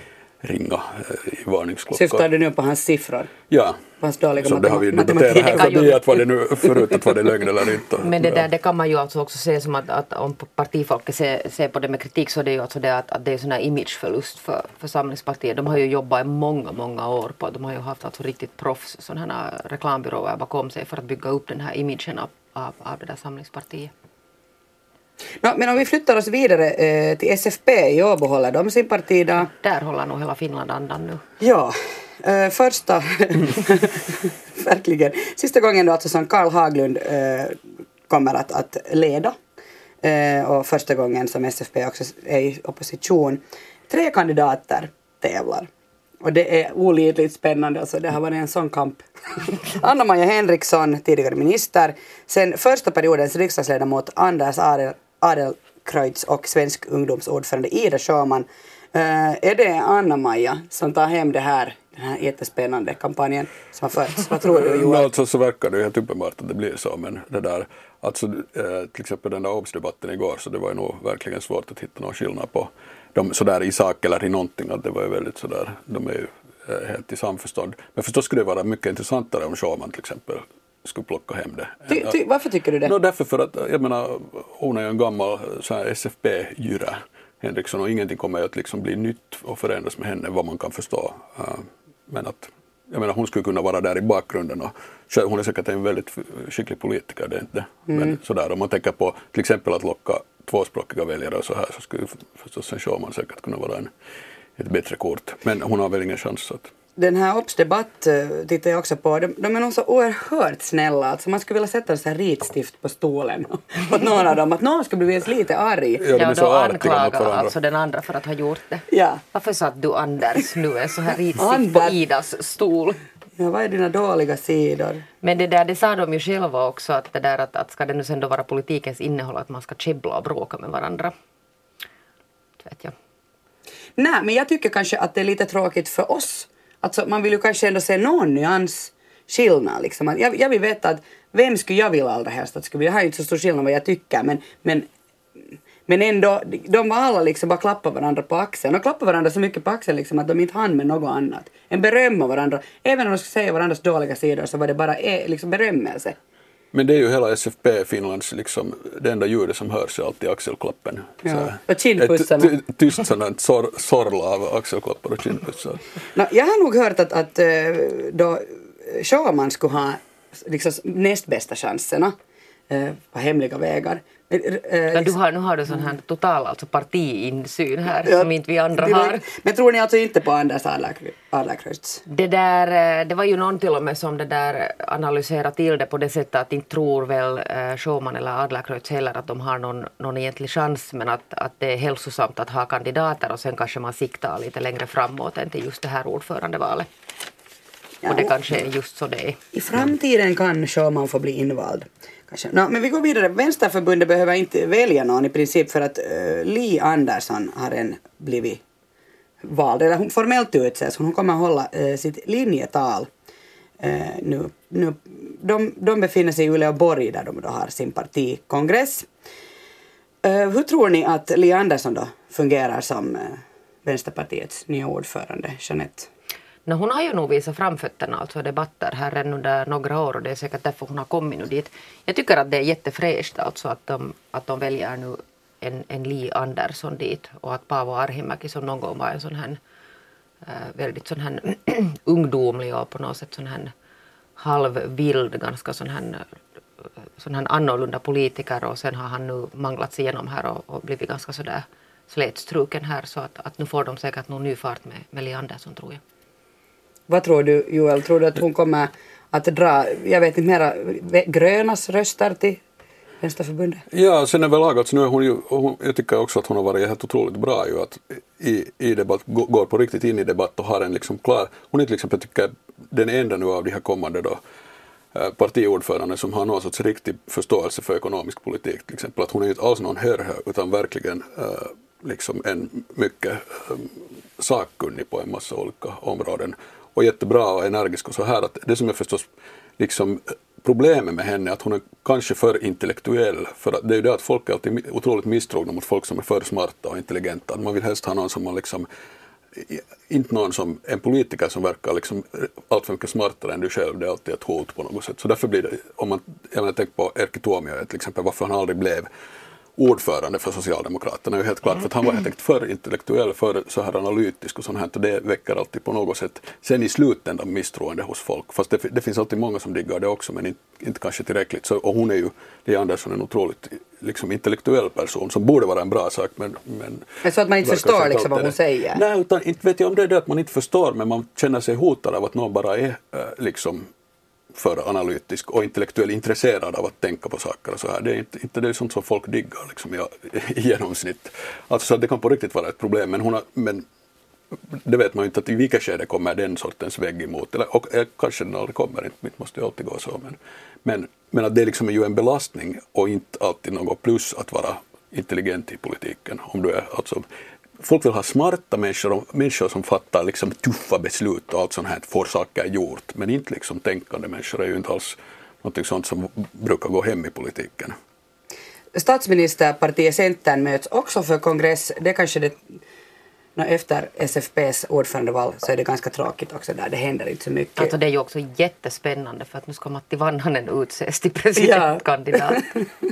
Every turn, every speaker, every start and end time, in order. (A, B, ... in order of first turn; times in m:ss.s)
0:00.4-0:02.2 A
0:01.9-0:03.3 B
0:03.5-0:03.8 A
0:04.0-0:06.2 B
0:04.4-0:08.4 A
0:05.4-0:05.9 C
0:08.0-0:23.9 C
0:25.4-0:29.5 B
0:29.6-0:31.2 C
0:31.4-0:39.4 B
0:40.0-0:45.7 B
0:46.2-1:05.1 B
1:04.4-1:22.2 A
1:21.9-1:22.9 B
1:22.8-1:43.9 A
1:37.9-1:38.2 B
1:44.6-1:46.7 A
1:47.0-1:56.1 B
1:56.0-1:57.5 A
1:56.1-2:03.0 C
1:58.9-1:59.2 B
2:01.3-2:02.0 B
2:03.4-2:05.0 B
2:05.2-2:11.1 C
2:12.6-2:12.9 C
2:14.0-2:24.9 B
2:25.9-2:36.2 B
2:36.7-2:45.8 A
2:41.2-2:42.5 B
2:46.1-2:52.1 B
2:52.7-2:55.2 B
2:54.9-2:59.2 C
2:58.0-3:02.0 B
3:02.0-3:16.9 C
3:18.0-3:18.3 B
3:18.0-3:19.4 C
3:19.5-3:28.6 B
3:29.4-3:33.1 B
3:33.8-3:39.1 B
3:40.2-3:46.1 B
3:46.6-3:59.6 C
4:00.4-4:03.7 C
4:04.4-4:06.2 C
4:07.2-4:16.0 C
4:17.1-4:22.6 B
4:23.2-4:23.8 B
4:23.9-4:34.4 A
4:35.1-4:49.2 A
4:49.8-4:58.9 A
4:59.5-5:09.1 A
5:09.8-5:27.1 A
5:27.2-5:29.0 B
5:27.6-5:33.9 A
5:34.5-5:43.8 A
5:44.7-5:57.2 A
5:57.8-6:07.9 A
6:08.9-6:12.8 B
6:13.6-6:17.9 B
6:17.8-6:22.7 C
6:21.6-6:22.8 B